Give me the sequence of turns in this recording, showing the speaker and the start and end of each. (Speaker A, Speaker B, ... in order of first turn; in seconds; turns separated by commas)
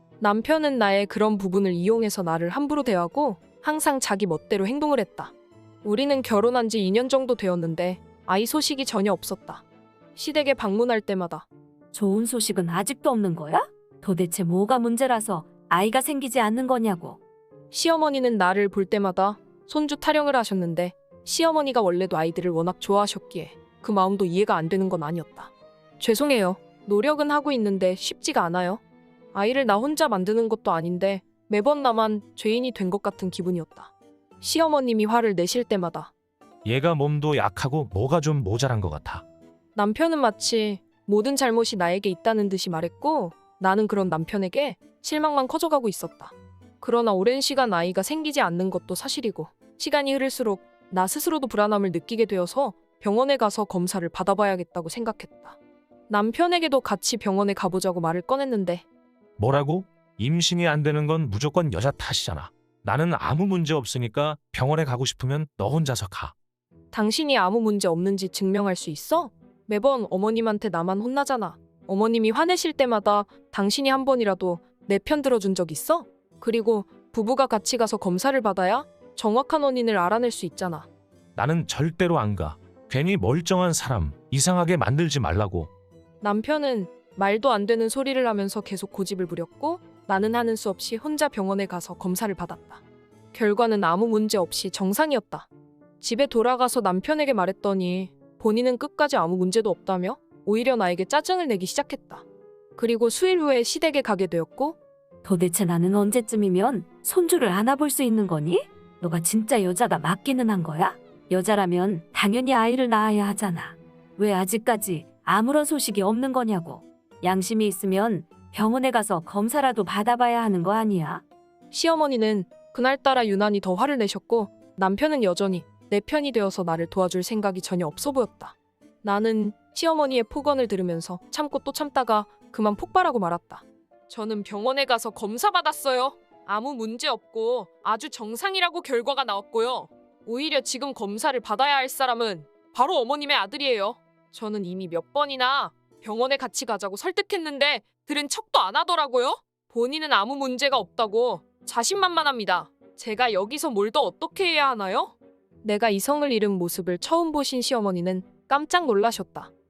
Speaker A: 0.2-9.6, Speaker A: 10.2-11.5, Speaker B: 11.9-17.2, Speaker A: 17.7-28.8, Speaker A: 29.3-36.1, Speaker C: 36.7-39.2, Speaker A: 39.8-55.6, Speaker A: 56.1-58.9, Speaker C: 59.4-66.3, Speaker A: 66.9-80.9, Speaker C: 81.4-85.7, Speaker A: 86.2-92.8, Speaker A: 93.3-95.5, Speaker A: 96.0-102.2, Speaker A: 102.8-104.8, Speaker B: 105.2-121.2, Speaker A: 121.7-159.5